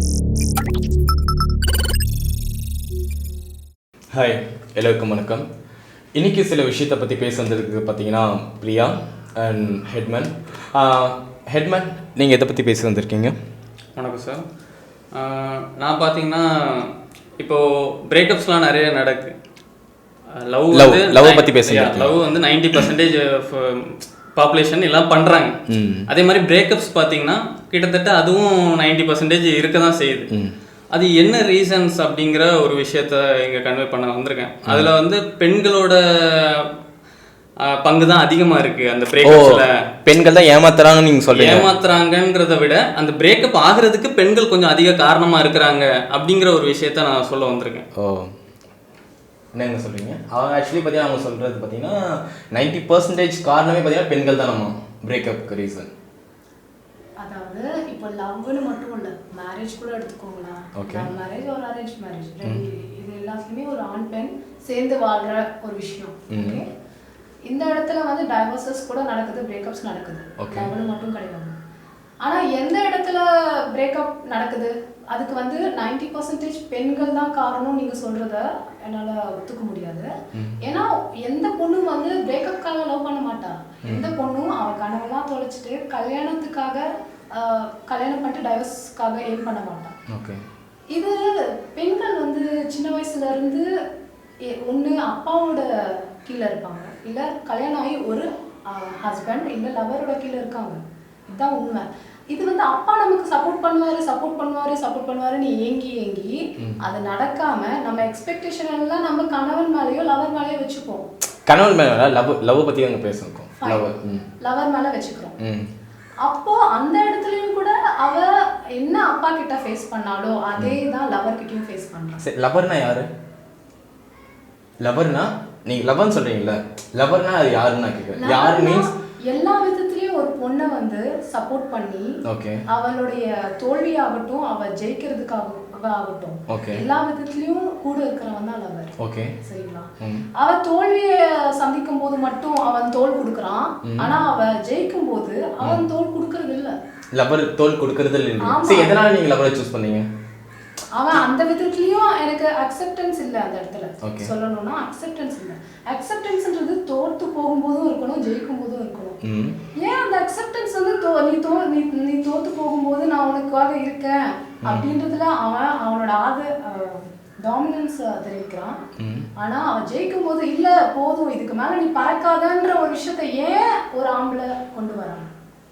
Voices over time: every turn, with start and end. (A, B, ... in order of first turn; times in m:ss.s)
0:04.1-0:05.5 A
0:06.2-0:13.4 A
0:14.0-0:14.4 B
0:15.2-0:19.3 B
0:20.4-0:25.5 B
0:20.7-0:22.2 A
0:25.7-0:26.0 A
0:26.1-0:30.3 B
0:30.9-0:36.6 B
0:34.6-0:34.9 A
0:37.6-0:39.7 B
0:39.2-0:41.7 A
0:41.3-0:47.8 B
0:48.0-0:48.3 A
0:49.5-0:52.0 A
0:52.5-0:55.9 A
0:57.2-1:06.7 C
1:00.8-1:01.1 A
1:06.3-1:06.6 A
1:07.5-1:11.5 C
1:10.4-1:10.7 A
1:12.2-1:20.0 C
1:20.6-1:29.9 C
1:30.1-1:30.4 A
1:30.9-1:31.2 C
1:31.7-1:33.6 C
1:34.5-1:35.6 C
1:36.2-1:51.1 C
1:51.5-1:54.2 A
1:53.6-1:53.8 C
1:54.4-1:55.4 C
1:55.4-1:55.7 A
1:56.2-2:02.2 C
2:02.2-2:03.1 A
2:04.8-2:08.8 A
2:08.2-2:12.1 C
2:12.3-2:12.6 A
2:12.7-2:18.9 C
2:16.5-2:16.8 A
2:19.0-2:19.4 A
2:19.4-2:26.7 C
2:23.8-2:24.1 A
2:27.1-2:30.0 A
2:28.4-2:29.0 C
2:31.0-2:39.2 C
2:34.0-2:34.3 A
2:39.2-2:39.6 A
2:39.8-2:48.8 C
2:44.6-2:44.9 A
2:49.0-2:49.3 A
2:49.4-2:55.3 C